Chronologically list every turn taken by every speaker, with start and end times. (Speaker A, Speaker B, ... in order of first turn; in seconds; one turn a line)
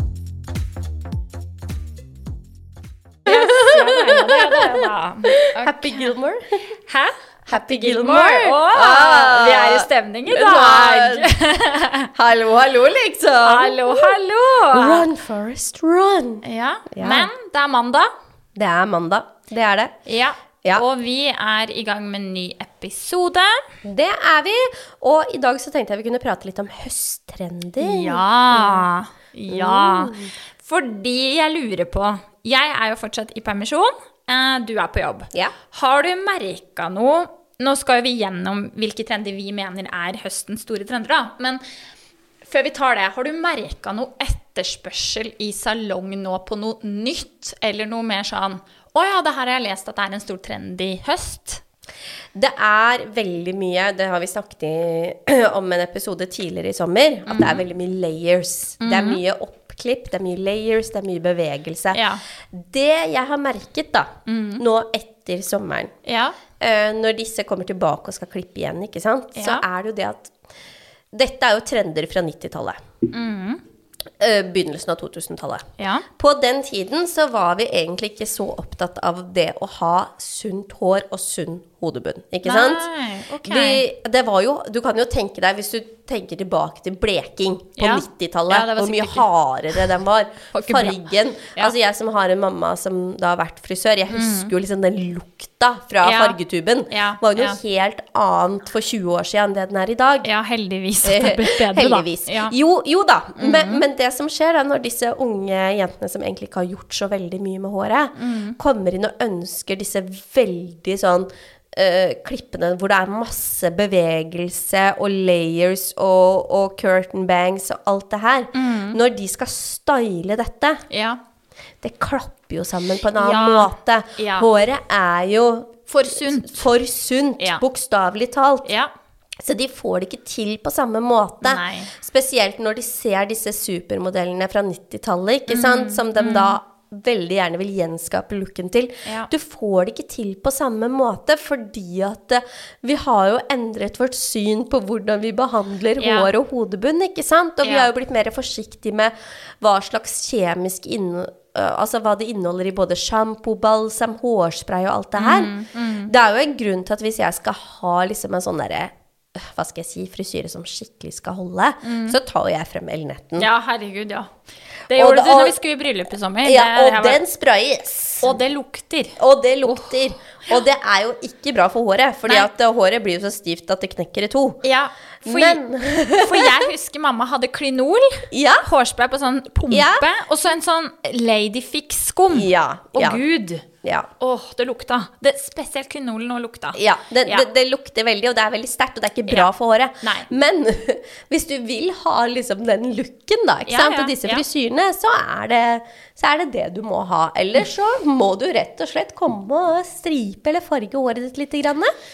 Speaker A: 3.3-6.1
Speaker B: 3.3-6.6
Speaker A: 6.9-12.1
Speaker B: 7.5-11.3
Speaker B: 12.2-14.2
Speaker A: 13.4-15.1
Speaker B: 14.7-17.3
Speaker A: 16.4-18.1
Speaker B: 18.6-19.9
Speaker A: 20.1-23.6
Speaker B: 23.8-28.9
Speaker A: 27.8-41.6
Speaker B: 29.5-30.3
Speaker A: 42.4-51.6
Speaker B: 52.4-62.0
Speaker A: 57.3-57.6
Speaker A: 58.8-59.2
Speaker A: 61.9-62.2
Speaker B: 62.5-65.9
Speaker A: 64.3-64.6
Speaker A: 66.0-66.4
Speaker B: 66.6-70.3
Speaker A: 69.4-69.6
Speaker B: 71.1-72.8
Speaker A: 73.1-73.6
Speaker B: 74.2-75.7
Speaker A: 75.8-76.1
Speaker B: 76.2-82.9
Speaker A: 82.5-83.8
Speaker B: 83.4-100.3
Speaker A: 87.8-89.3
Speaker A: 90.5-91.0
Speaker A: 94.1-94.5
Speaker A: 96.0-96.4
Speaker A: 96.9-97.6
Speaker A: 100.2-102.5
Speaker B: 101.0-120.8
Speaker A: 103.4-103.8
Speaker A: 108.2-108.6
Speaker A: 118.5-119.0
Speaker A: 120.9-121.2
Speaker B: 121.8-128.7
Speaker A: 123.1-124.5
Speaker A: 125.9-126.7
Speaker A: 128.7-128.9
Speaker B: 129.4-155.5
Speaker A: 131.4-131.9
Speaker A: 135.5-136.6
Speaker A: 146.0-146.3
Speaker A: 147.6-147.9
Speaker A: 155.2-156.1
Speaker B: 156.1-163.5
Speaker A: 161.8-162.2
Speaker A: 163.4-164.3
Speaker A: 164.9-167.2
Speaker B: 164.9-165.6
Speaker B: 166.4-168.3
Speaker A: 168.2-169.9
Speaker B: 169.2-174.6
Speaker A: 174.6-183.7
Speaker B: 175.2-176.7
Speaker B: 178.3-178.7
Speaker B: 179.7-180.1
Speaker B: 182.3-183.2
Speaker B: 183.8-184.1
Speaker A: 184.2-187.5
Speaker B: 186.8-201.9
Speaker A: 190.0-190.3
Speaker A: 193.7-194.4